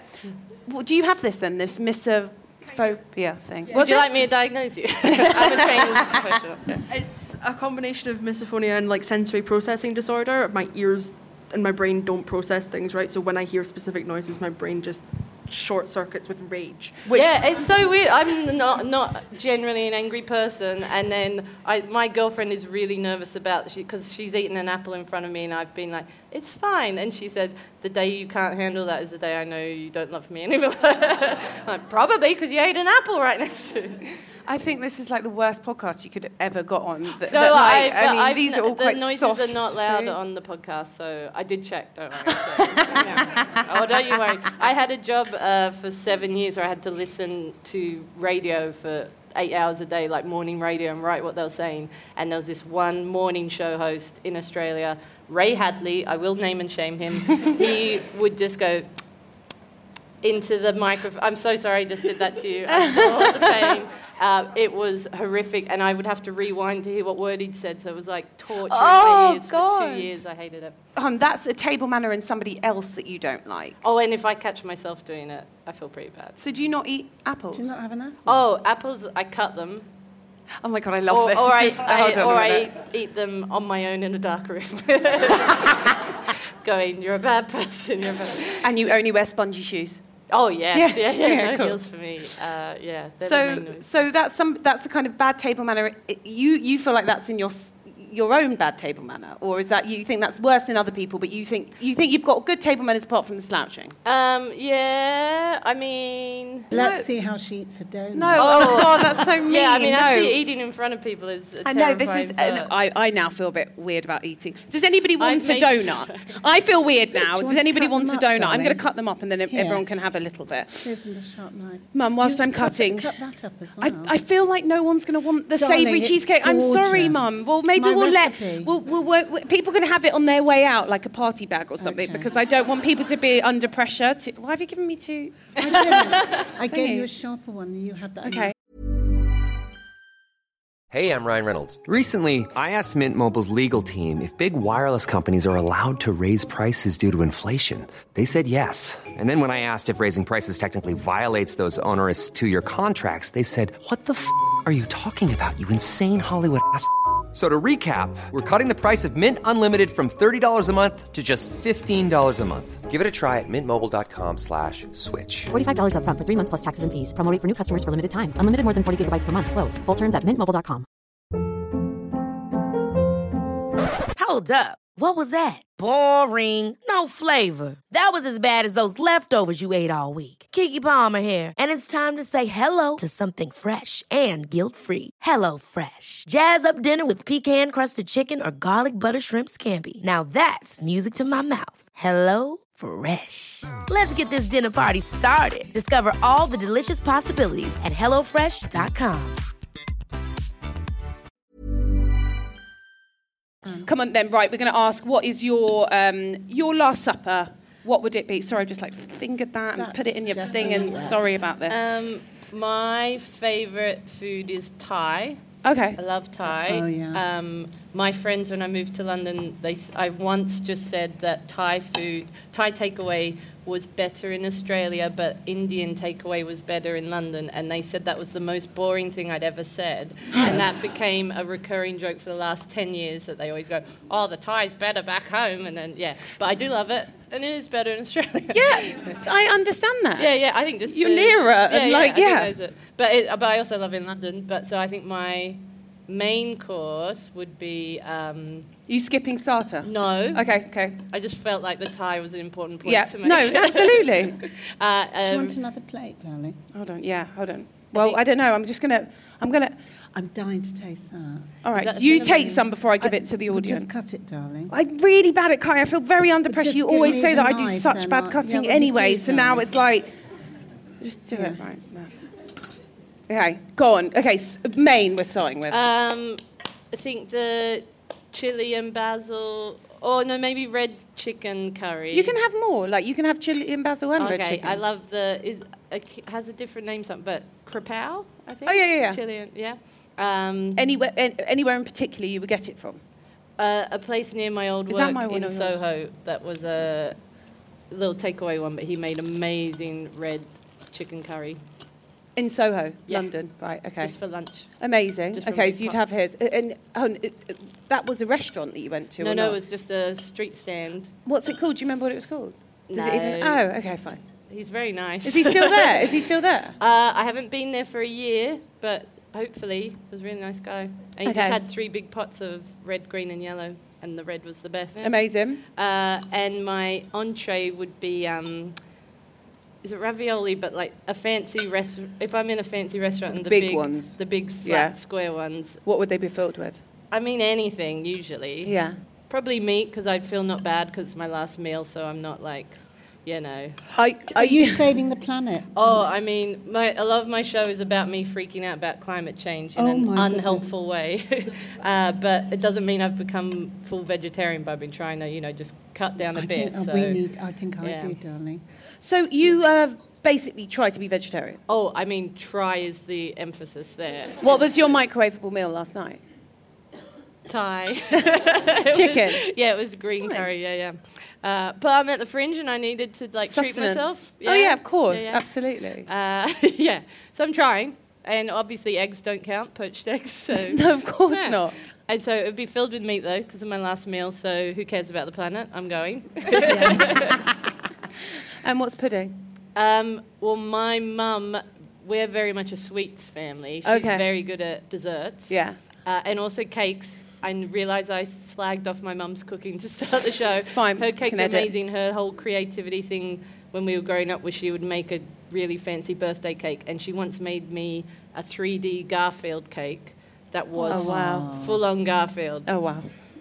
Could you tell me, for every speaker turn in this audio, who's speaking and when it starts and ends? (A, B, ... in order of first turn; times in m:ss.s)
0:00.7-0:04.1 A
0:03.7-0:06.8 B
0:05.1-0:06.2 A
0:06.9-0:17.4 C
0:17.1-0:34.1 B
0:34.5-0:40.2 A
0:37.3-0:58.9 B
0:42.3-0:43.6 A
1:00.2-1:10.8 B
1:02.8-1:03.5 A
1:08.7-1:10.2 A
1:11.0-1:13.8 A
1:13.8-1:16.4 B
1:16.4-1:17.8 A
1:17.5-1:18.4 D
1:18.3-1:19.9 B
1:20.6-1:22.7 A
1:21.1-1:28.6 B
1:28.6-1:30.0 A
1:30.3-1:34.0 B
1:30.7-1:31.8 A
1:33.2-1:44.0 A
1:44.0-1:46.7 B
1:46.7-1:47.1 A
1:46.7-1:49.0 D
1:48.1-1:50.4 A
1:48.4-1:52.7 B
1:51.6-2:00.9 A
1:55.2-1:56.4 B
1:57.2-1:58.8 D
1:59.5-1:59.9 D
2:00.8-2:04.2 D
2:01.9-2:03.1 A
2:03.8-2:15.5 A
2:05.6-2:08.8 D
2:11.8-2:12.3 D
2:15.6-2:18.5 D
2:16.7-2:17.1 A
2:18.2-2:18.5 A
2:20.9-2:45.5 E
2:45.5-2:50.9 F
2:54.2-3:19.4 G
3:23.8-3:31.8 A
3:29.7-3:31.2 D
3:31.7-3:35.4 B
3:35.6-3:36.0 A
3:36.0-3:59.1 B
3:36.6-3:37.2 D
3:58.5-4:00.3 A
4:00.2-4:08.7 B
4:00.9-4:02.5 A
4:08.9-4:11.0 A
4:09.8-4:15.6 B
4:12.8-4:14.4 A
4:15.2-4:16.6 D
4:16.7-4:19.8 A
4:17.9-4:18.2 B
4:20.1-4:21.5 D
4:21.6-4:23.9 A
4:21.7-4:22.7 B
4:23.1-4:24.7 D
4:24.7-4:30.1 A
4:26.5-4:29.8 D
4:31.0-4:32.1 A
4:31.3-4:31.6 D
4:33.3-4:35.8 A
4:35.7-4:36.4 B
4:36.9-4:42.4 B
4:42.1-4:44.8 A
4:44.2-4:50.9 B
4:48.7-4:49.2 A
4:50.8-4:53.0 A
4:53.6-4:57.2 B
4:54.9-4:55.8 A
4:57.9-5:01.6 B
5:02.4-5:04.2 A
5:04.0-5:04.7 B
5:04.8-5:09.6 A
5:05.3-5:06.0 B
5:09.2-5:11.1 B
5:11.3-5:14.2 A
5:12.9-5:13.7 B
5:14.5-5:16.2 B
5:15.2-5:16.8 A
5:16.8-5:28.8 B
5:21.2-5:21.6 A
5:25.0-5:25.6 A
5:29.8-5:35.8 B
5:33.3-5:35.0 A
5:35.8-5:36.8 A
5:37.1-5:38.8 B
5:38.6-5:39.0 A
5:39.3-5:43.8 B
5:43.9-5:44.9 A
5:44.3-5:45.8 D
5:45.8-5:57.2 B
5:49.8-5:50.7 D
5:56.4-5:58.6 D
5:57.8-5:58.2 B
5:59.0-6:01.6 A
6:01.7-6:04.8 B
6:04.4-6:06.2 A
6:07.5-6:27.4 B
6:08.9-6:09.4 A
6:10.2-6:10.5 A
6:13.5-6:16.1 A
6:20.6-6:21.8 A
6:26.7-6:27.2 A
6:26.7-6:27.2 D
6:28.6-6:29.4 A
6:29.8-6:52.8 B
6:33.8-6:34.3 A
6:35.5-6:35.8 A
6:40.6-6:41.7 A
6:50.8-6:51.5 A
6:50.8-6:51.8 D
6:52.7-6:53.1 A